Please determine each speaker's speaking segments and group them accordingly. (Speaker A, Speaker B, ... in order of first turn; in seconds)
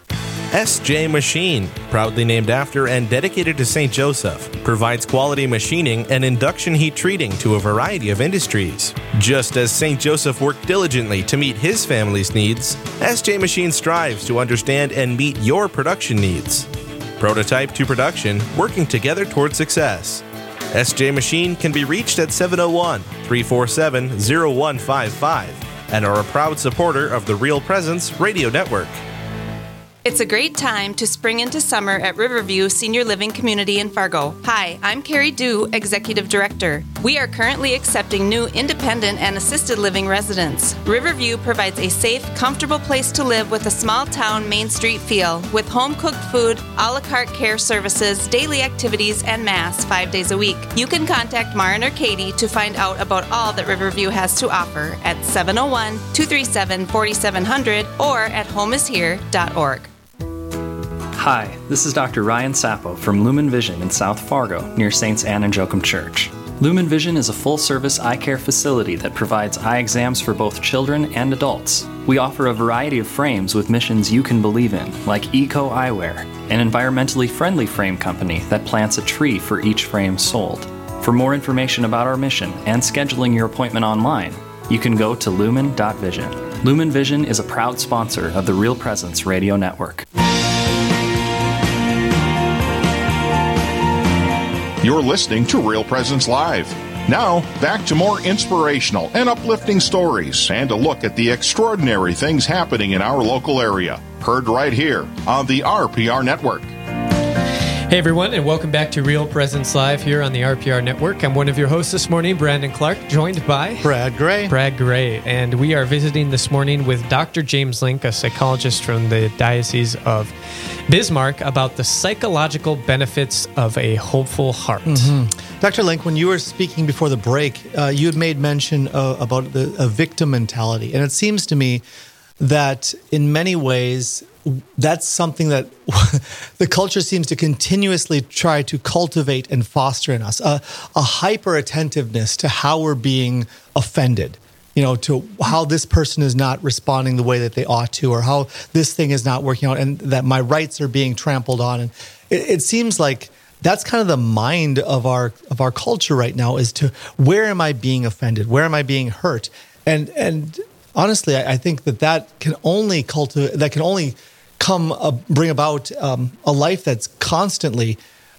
Speaker A: 0.5-28.9
Speaker B: 30.0-59.9
Speaker C: 61.1-90.1
Speaker D: 94.8-106.7
Speaker E: 107.9-113.9, 114.5-120.3, 120.9-125.1
Speaker F: 113.8-114.5, 124.8-131.8, 132.4-168.0